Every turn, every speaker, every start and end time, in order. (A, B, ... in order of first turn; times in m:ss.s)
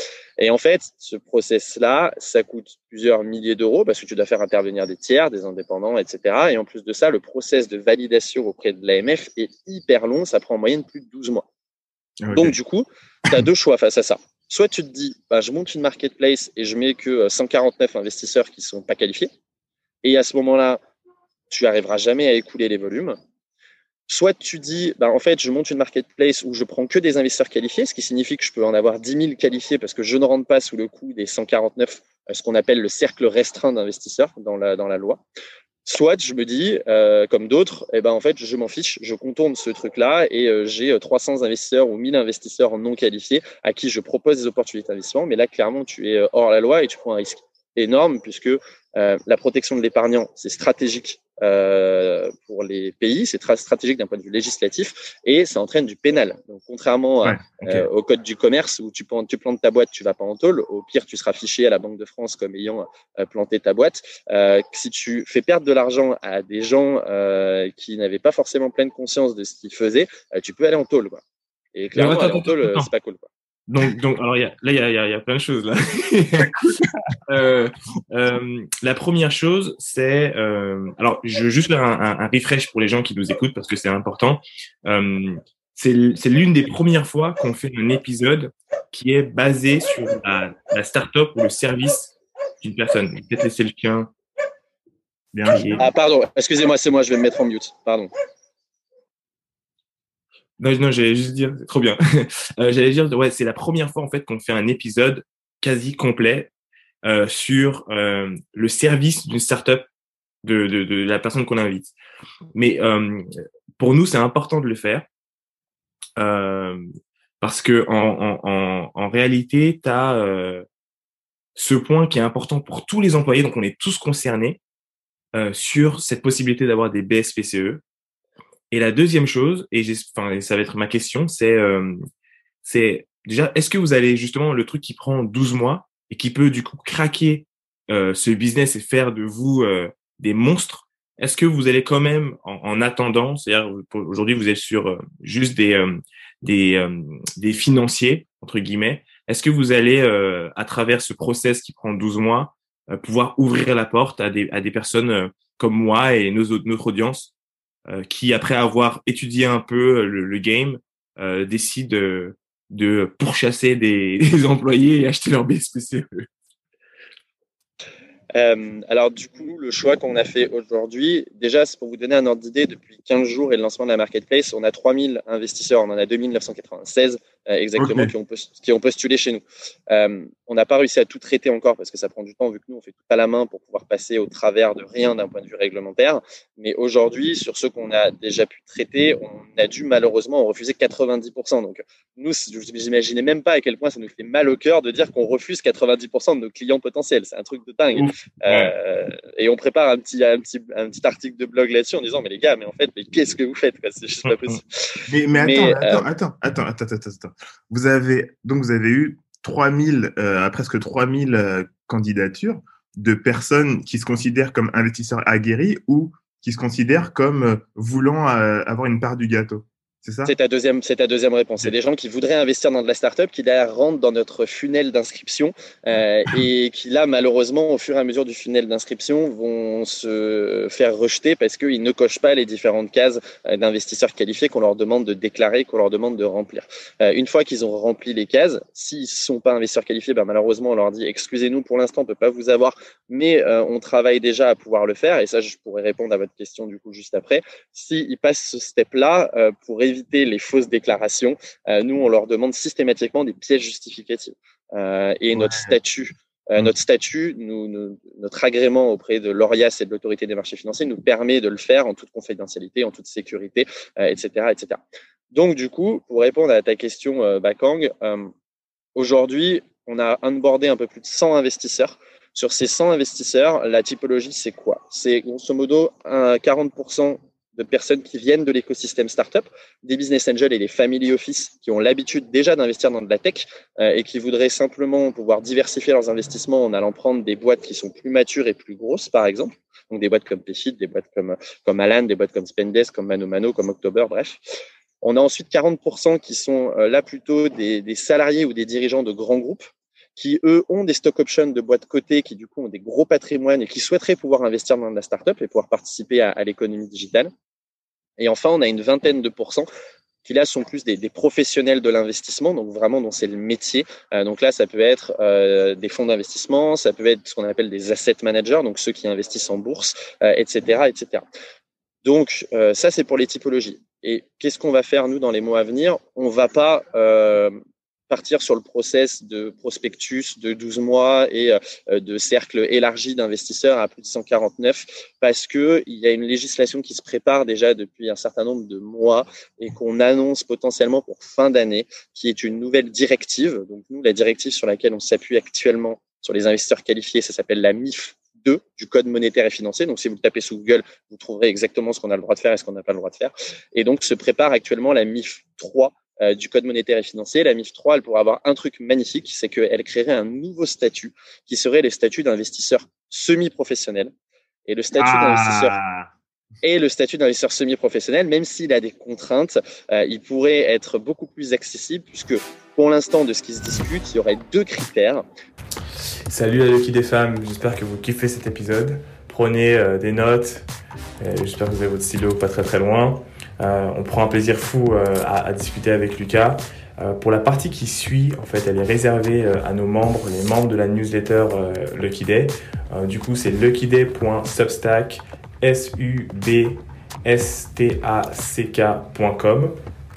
0:00.4-0:11.4 A
0:12.2-0:12.6 B
0:12.3-0:19.3 A
0:20.0-0:20.8 A
0:21.5-0:23.2 A
0:24.1-0:35.2 A
0:35.8-1:11.2 A
0:57.2-0:57.8 B
1:11.7-1:13.3 A
1:11.9-1:12.9 C
1:13.7-1:16.6 C
1:16.4-1:17.2 B
1:17.3-1:34.1 C
1:35.3-1:35.8 B
1:35.4-1:35.8 C
1:35.8-1:38.1 A
1:40.6-1:46.5 C
1:47.0-1:49.8 C
1:50.4-1:51.9 C
1:52.5-1:55.0 C
1:56.2-1:56.8 C
1:57.4-2:00.6 C
2:01.6-2:04.6 C
2:05.3-2:07.8 C
2:08.7-2:12.0 C
2:12.6-2:37.3 C
2:37.9-2:46.3 C
2:48.3-3:24.6 A
2:57.8-2:58.1 B
3:18.0-3:18.7 C
3:24.2-3:24.6 C
3:25.1-3:40.3 B
3:25.3-3:26.0 A
3:40.2-4:24.8 A
4:15.3-4:15.7 B
4:25.3-4:28.3 A
4:28.9-4:54.4 A
4:55.0-5:07.3 A
5:08.2-5:09.7 A
5:10.2-5:21.2 A
5:22.0-5:27.6 A
5:28.1-6:04.1 A
6:04.7-6:05.8 A
6:04.9-6:06.1 B
6:06.6-6:15.2 A
6:16.3-6:20.7 C
6:21.2-6:39.7 C